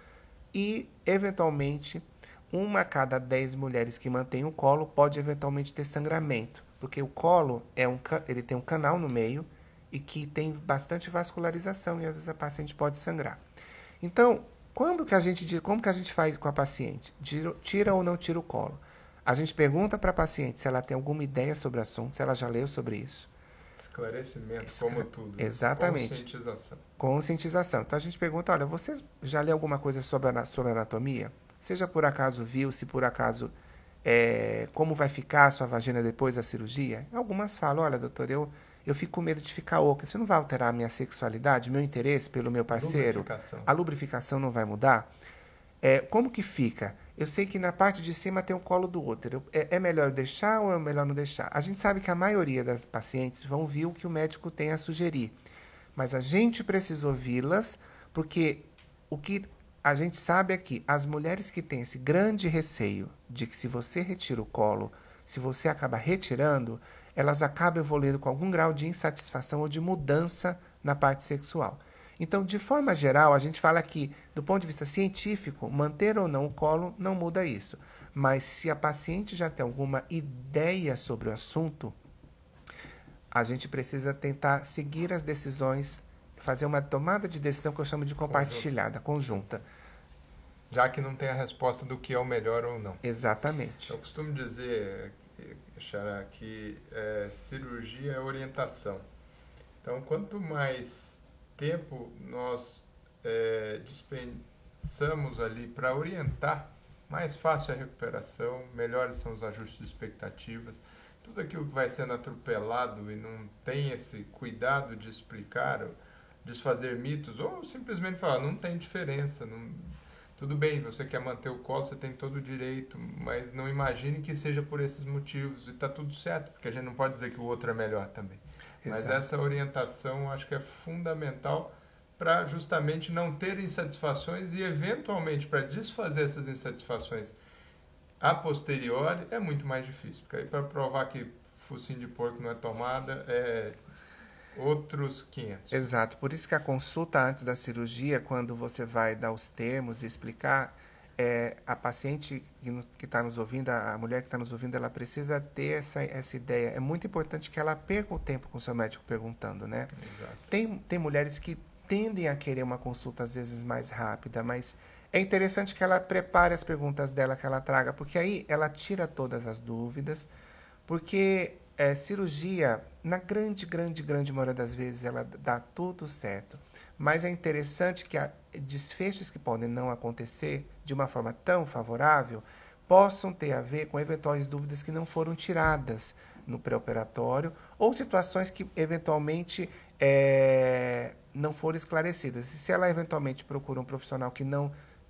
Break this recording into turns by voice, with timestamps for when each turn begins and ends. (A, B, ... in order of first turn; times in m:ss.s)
0:00.5-0:13.4 A
0:14.0-0:23.3 A
0:23.8-0:26.8 B
0:24.6-0:26.2 A
0:27.0-0:45.1 A
0:42.7-0:43.7 B
0:45.8-0:55.4 A
0:56.0-1:22.0 A
1:23.3-1:29.6 A
1:28.3-1:28.7 B
1:30.7-1:33.0 B
1:33.0-1:34.0 A
1:33.9-1:39.0 B
1:39.8-2:17.4 B
2:08.8-2:09.2 A
2:18.2-2:23.8 B
2:24.5-2:25.9 B
2:25.7-2:39.9 A
2:40.0-2:40.5 B
2:40.5-2:50.3 A
2:50.9-3:14.7 A